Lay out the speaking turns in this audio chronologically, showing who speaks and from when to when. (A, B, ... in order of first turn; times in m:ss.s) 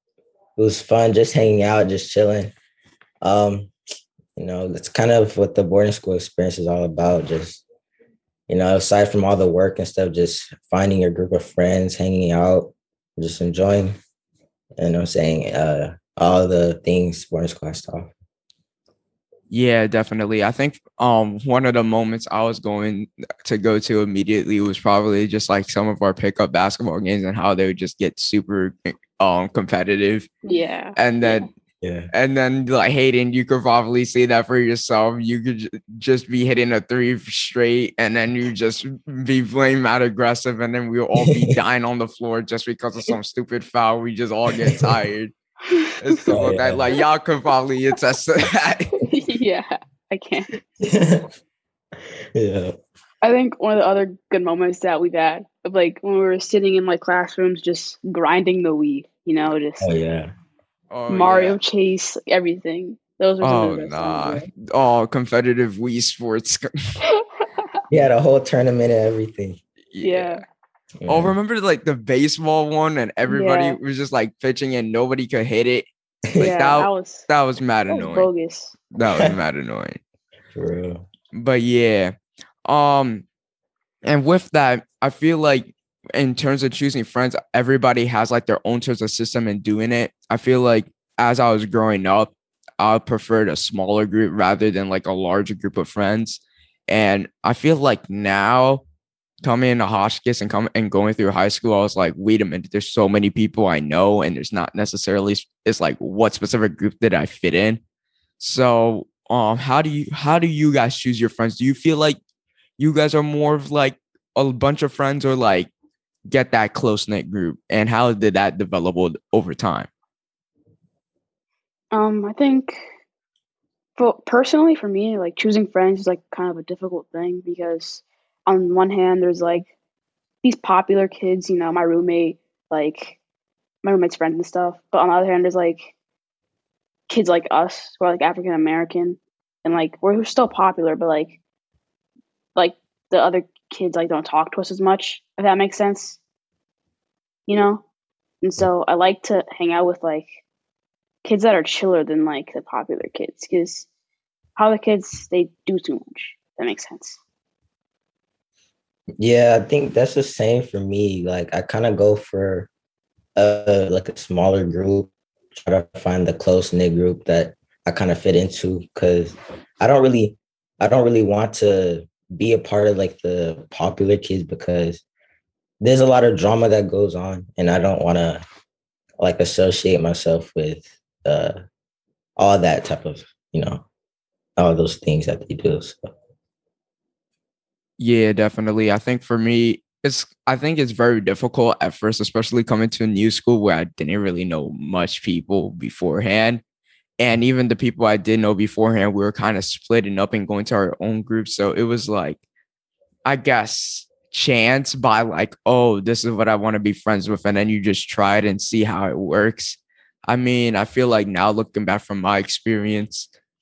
0:00.6-0:02.5 A
0:03.2-0:03.7 A
0:04.4-0:07.6 A
0:08.5-0:14.0 A
0:14.8-0:18.1 A
0:19.5-0:30.3 B
0:30.4-0:31.5 C
0:31.0-0:31.5 B
0:31.8-0:32.1 A
0:32.1-0:45.3 B
0:41.2-0:41.5 A
0:44.5-0:45.0 A
0:46.0-0:48.9 B
0:46.3-0:47.0 A
0:49.1-0:50.5 C
0:50.8-0:51.3 A
0:52.3-0:52.7 A
0:53.2-0:59.9 C
0:59.8-1:00.3 A
1:00.9-1:01.6 B
1:01.1-1:04.4 C
1:03.4-1:06.7 B
1:07.1-1:07.7 C
1:07.9-1:09.6 A
1:09.9-1:10.4 B
1:10.0-1:10.4 C
1:11.0-1:11.3 A
1:11.1-1:18.3 B
1:13.3-1:13.8 C
1:16.4-1:17.3 C
1:17.9-1:18.8 C
1:18.9-1:20.0 B
1:19.0-1:19.3 A
1:20.5-1:21.0 A
1:21.3-1:22.1 B
1:22.6-1:23.2 B
1:24.0-1:38.8 B
1:39.4-1:47.8 B
1:48.4-1:52.2 B
1:52.8-1:55.7 B
1:56.3-1:59.9 B
2:01.9-2:02.8 C
2:04.0-2:09.7 C
2:10.4-2:13.2 C
2:13.8-2:15.9 C
2:17.1-2:21.4 C
2:22.6-2:26.2 C
2:27.5-2:27.8 C
2:28.4-2:30.3 C
2:31.2-2:33.9 C
2:34.6-2:37.2 C
2:39.2-2:42.7 A
2:43.4-2:55.0 A
2:55.8-2:58.4 A
2:59.2-3:01.6 A
3:02.4-3:03.8 A
3:04.6-3:06.1 A
3:08.0-3:16.6 B
3:17.2-3:22.4 B
3:23.2-3:33.3 B